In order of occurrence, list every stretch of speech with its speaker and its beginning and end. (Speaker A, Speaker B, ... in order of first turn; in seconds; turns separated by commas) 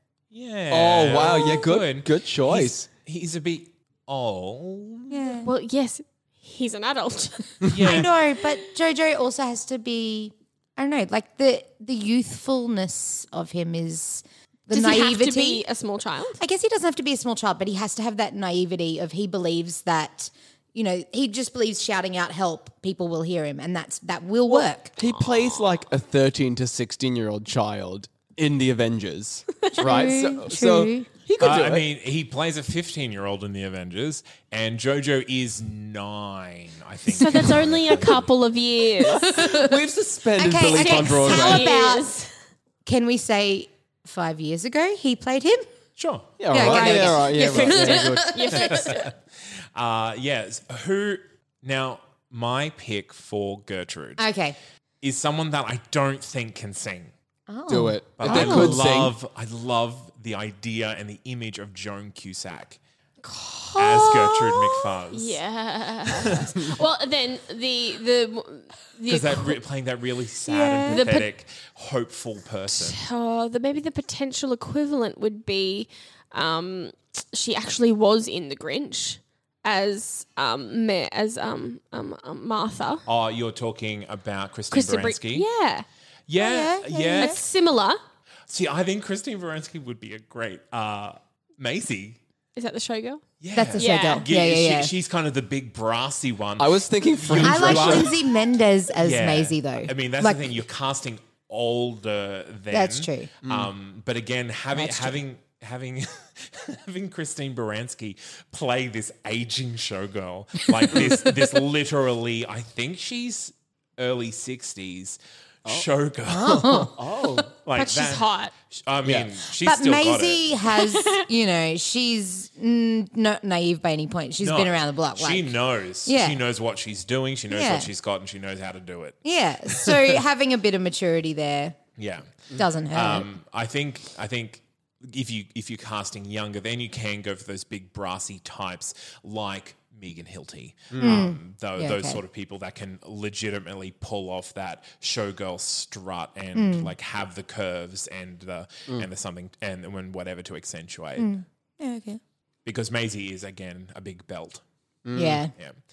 Speaker A: 0.3-5.1, Speaker B: 0.7-2.9, Speaker C: 5.1-5.5, Speaker D: 5.4-7.7, Speaker A: 7.7-8.1, Speaker C: 7.8-15.6, Speaker D: 14.7-16.4, Speaker C: 16.4-24.9, Speaker B: 24.5-31.9, Speaker D: 25.0-25.7, Speaker C: 29.8-31.1, Speaker A: 31.4-38.3, Speaker D: 37.1-39.5, Speaker B: 39.1-41.8, Speaker C: 39.3-39.7, Speaker C: 40.4-42.1, Speaker D: 40.8-42.3, Speaker C: 42.8-45.6, Speaker A: 46.0-46.5, Speaker B: 46.4-48.4, Speaker C: 46.5-48.8, Speaker D: 46.5-49.1, Speaker A: 48.5-49.1, Speaker A: 49.7-54.2, Speaker C: 54.2-54.5, Speaker A: 55.0-57.1, Speaker C: 57.5-58.8, Speaker B: 57.7-59.1, Speaker A: 58.2-62.8, Speaker D: 63.2-69.6, Speaker A: 63.8-65.4, Speaker A: 66.1-66.5, Speaker A: 69.1-73.0, Speaker C: 70.4-71.1, Speaker D: 70.9-71.3, Speaker D: 72.7-83.0, Speaker A: 83.0-85.4, Speaker D: 84.7-85.8, Speaker A: 86.3-87.4, Speaker C: 86.3-87.4, Speaker D: 87.2-88.0, Speaker A: 88.5-92.2, Speaker D: 92.5-93.2, Speaker A: 93.4-98.2, Speaker C: 93.5-94.9, Speaker D: 93.8-94.2, Speaker B: 96.6-98.1, Speaker C: 97.4-100.6, Speaker A: 99.0-117.0, Speaker C: 102.7-103.3, Speaker B: 103.4-103.7, Speaker C: 104.7-105.2, Speaker C: 116.3-116.9, Speaker B: 117.0-117.5, Speaker A: 117.5-120.4, Speaker D: 117.7-118.5, Speaker B: 119.0-119.3, Speaker C: 119.6-125.5, Speaker D: 120.8-121.2, Speaker A: 124.4-129.9, Speaker C: 126.0-126.4, Speaker C: 127.5-127.9, Speaker C: 129.2-131.8, Speaker A: 132.0-151.3, Speaker C: 132.6-133.3, Speaker B: 140.9-141.3, Speaker C: 141.0-142.2, Speaker C: 146.5-146.9, Speaker C: 151.2-152.2, Speaker A: 152.6-154.6, Speaker B: 155.0-155.4, Speaker C: 155.1-155.5, Speaker A: 155.5-155.8